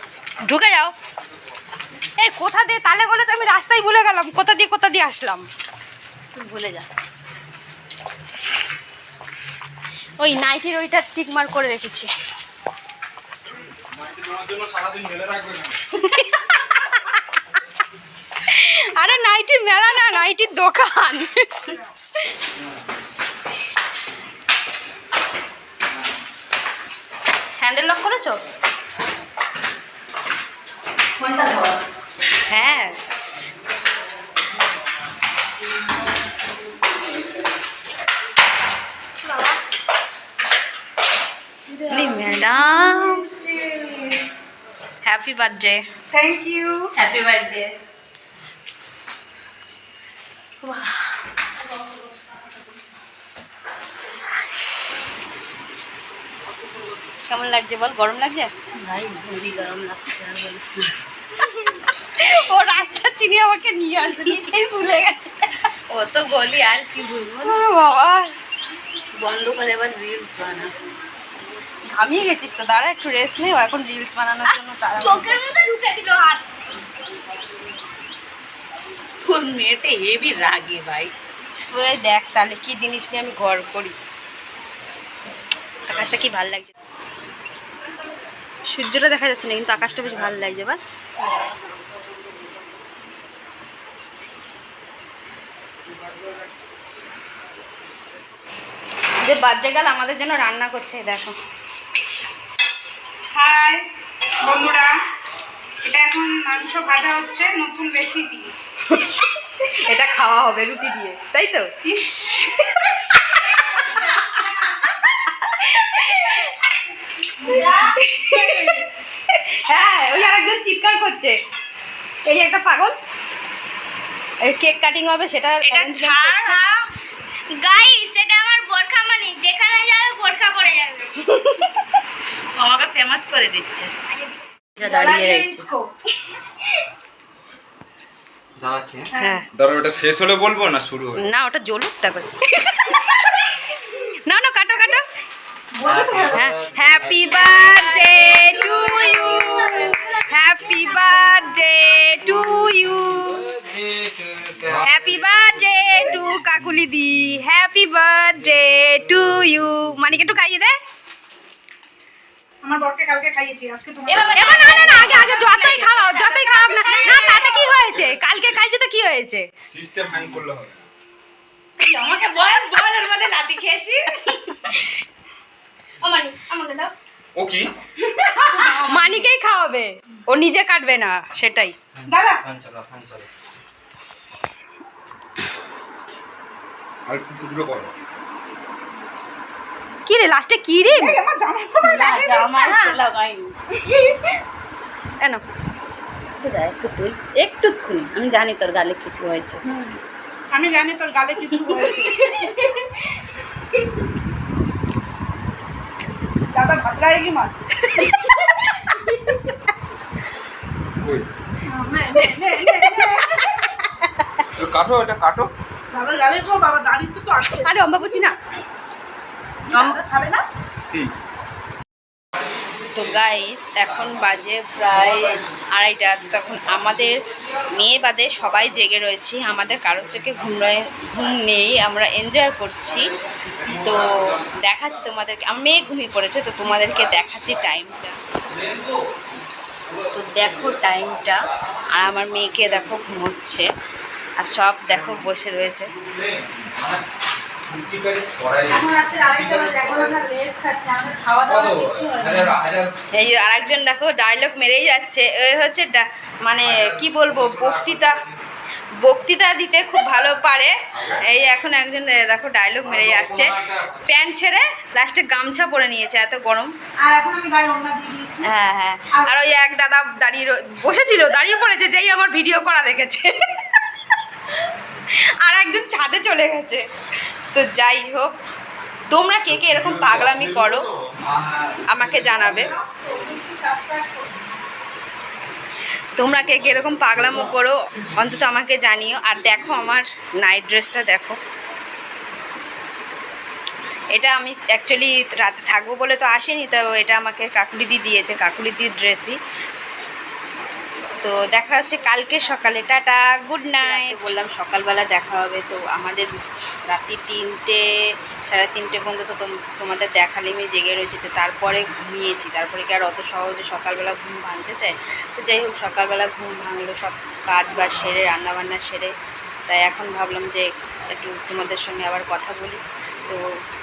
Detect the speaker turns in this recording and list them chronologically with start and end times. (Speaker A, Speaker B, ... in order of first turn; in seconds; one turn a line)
Speaker A: 0.4-0.9
Speaker A: 2.2-5.5
Speaker B: 6.3-6.9
Speaker A: 10.2-12.1
Speaker C: 13.6-15.8
Speaker A: 15.9-17.0
Speaker A: 18.5-21.8
Speaker A: 27.6-28.4
Speaker B: 31.2-31.8
Speaker A: 32.5-33.0
Speaker D: 39.2-39.6
Speaker D: 41.7-42.2
Speaker A: 41.9-43.5
Speaker D: 43.1-44.2
Speaker A: 45.0-45.9
Speaker D: 46.1-46.9
Speaker B: 46.5-47.7
Speaker B: 50.6-51.2
Speaker A: 57.3-58.5
Speaker B: 58.7-61.0
Speaker A: 61.4-65.5
Speaker B: 65.9-67.6
Speaker A: 67.4-68.3
Speaker B: 69.2-70.7
Speaker A: 71.9-75.4
Speaker E: 75.1-76.4
Speaker B: 75.2-76.3
Speaker B: 79.2-81.1
Speaker A: 81.7-84.0
Speaker A: 85.9-86.7
Speaker A: 88.7-90.8
Speaker A: 99.2-101.4
Speaker D: 103.3-103.8
Speaker D: 104.4-104.9
Speaker D: 105.8-108.5
Speaker A: 108.9-111.7
Speaker D: 111.8-112.8
Speaker A: 113.1-116.6
Speaker D: 117.4-118.8
Speaker A: 117.5-121.4
Speaker A: 122.2-123.0
Speaker A: 124.4-126.6
Speaker B: 125.7-126.8
Speaker E: 127.5-131.2
Speaker A: 131.2-131.7
Speaker B: 132.6-133.9
Speaker B: 134.8-135.7
Speaker D: 134.8-135.9
Speaker C: 138.6-141.2
Speaker D: 139.1-139.4
Speaker A: 139.2-139.5
Speaker A: 141.2-145.0
Speaker D: 145.7-146.5
Speaker C: 145.9-146.6
Speaker A: 146.3-153.5
Speaker B: 147.3-150.1
Speaker D: 149.1-149.9
Speaker C: 153.6-154.9
Speaker A: 154.7-160.8
Speaker D: 162.6-164.9
Speaker B: 164.1-167.8
Speaker A: 164.2-169.5
Speaker C: 169.6-170.8
Speaker B: 171.8-174.5
Speaker A: 174.1-174.9
Speaker C: 177.4-177.7
Speaker D: 178.2-179.2
Speaker A: 178.6-181.8
Speaker D: 182.1-182.4
Speaker C: 182.4-183.3
Speaker C: 187.1-187.9
Speaker A: 190.1-191.2
Speaker D: 190.8-192.9
Speaker B: 191.8-194.2
Speaker B: 196.4-199.6
Speaker D: 199.7-200.0
Speaker D: 200.5-202.3
Speaker B: 201.7-202.9
Speaker D: 206.5-207.5
Speaker A: 207.9-208.6
Speaker C: 211.0-211.3
Speaker D: 211.7-213.7
Speaker A: 212.2-213.9
Speaker C: 214.6-215.5
Speaker D: 215.9-217.7
Speaker A: 217.6-218.4
Speaker D: 219.7-220.4
Speaker A: 219.7-220.0
Speaker A: 222.9-227.2
Speaker A: 227.7-238.2
Speaker C: 238.5-238.9
Speaker A: 240.1-243.7
Speaker A: 244.4-245.9
Speaker C: 246.0-247.0
Speaker C: 247.7-250.2
Speaker D: 248.7-252.6
Speaker C: 251.5-252.9
Speaker A: 253.1-258.3
Speaker C: 256.7-258.3
Speaker A: 259.0-266.7
Speaker C: 261.0-261.2
Speaker C: 262.9-264.0
Speaker D: 267.0-268.5
Speaker A: 268.4-273.8
Speaker A: 275.1-276.8
Speaker A: 277.5-278.3
Speaker A: 279.1-280.9
Speaker C: 281.1-282.7
Speaker A: 281.9-282.8
Speaker D: 282.3-284.6
Speaker A: 286.2-291.4
Speaker C: 286.9-287.3
Speaker A: 294.1-299.4
Speaker A: 301.2-306.3
Speaker B: 303.8-304.3
Speaker A: 306.9-307.9
Speaker A: 308.5-319.1
Speaker A: 319.7-323.4